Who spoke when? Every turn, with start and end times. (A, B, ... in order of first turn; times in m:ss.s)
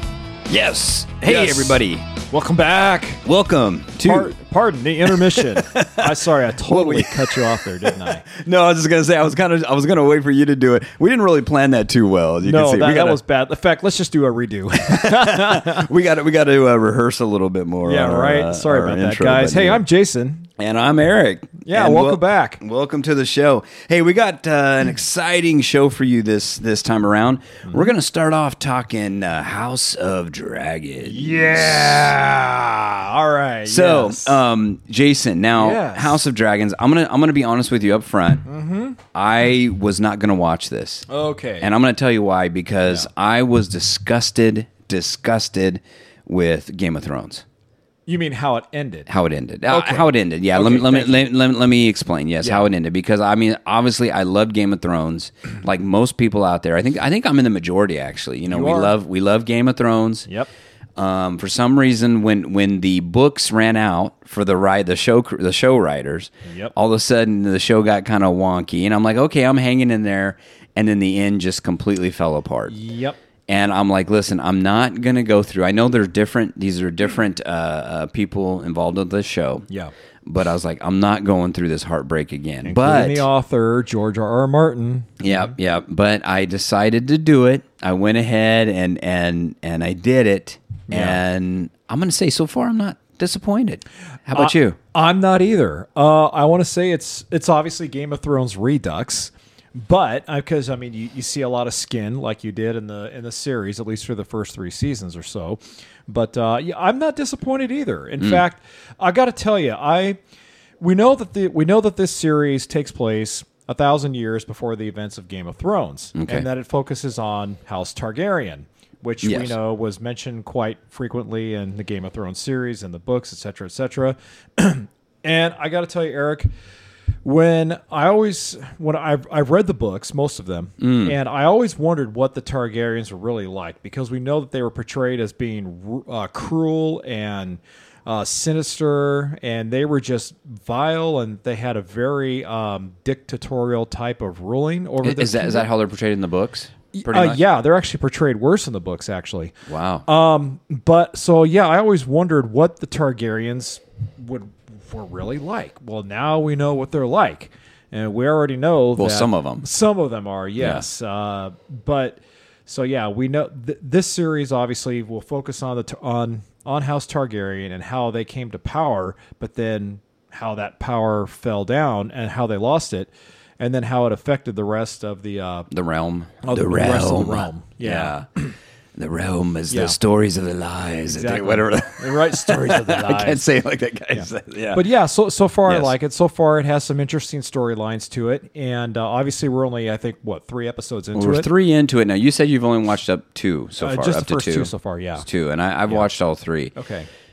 0:00.5-0:02.1 A
0:01.2-0:03.2 B
0:03.2-0:04.3 A
0:04.0-0:08.2 B
0:05.1-0:13.2 A
0:12.4-0:15.9 B
0:14.9-0:19.8 A
0:17.8-0:20.5 B
0:20.6-0:32.2 A
0:21.6-0:22.6 B
0:31.0-0:34.4 B
0:33.7-0:38.5 A
0:35.6-0:36.2 B
0:38.5-0:39.0 B
0:39.1-0:41.1 A
0:41.1-0:41.7 B
0:41.6-0:47.4 A
0:48.1-0:49.1 B
0:49.1-1:00.3 A
0:49.7-0:51.3 B
0:52.4-0:52.7 B
0:58.5-0:59.0 B
1:01.0-1:12.7 A
1:06.5-1:06.7 B
1:12.7-1:13.2 B
1:13.5-1:19.7 A
1:19.7-1:19.9 B
1:20.2-1:23.3 A
1:22.6-1:25.5 B
1:25.2-1:34.8 A
1:30.9-1:31.2 B
1:34.3-1:50.2 B
1:50.8-2:06.5 B
1:56.2-1:56.4 A
1:59.2-1:59.6 A
2:07.2-2:25.7 B
2:10.8-2:11.2 A
2:25.0-2:27.4 A
2:26.9-2:29.5 B
2:29.7-2:30.1 A
2:30.1-2:55.7 B
2:39.0-2:39.6 A
2:40.6-2:40.8 A
2:55.7-2:58.3 A
2:56.4-2:58.5 B
2:59.0-3:04.8 A
2:59.7-3:00.0 B
3:01.1-3:03.4 B
3:04.1-3:11.5 B
3:11.1-3:16.7 A
3:13.8-3:15.2 B
3:16.8-3:17.1 B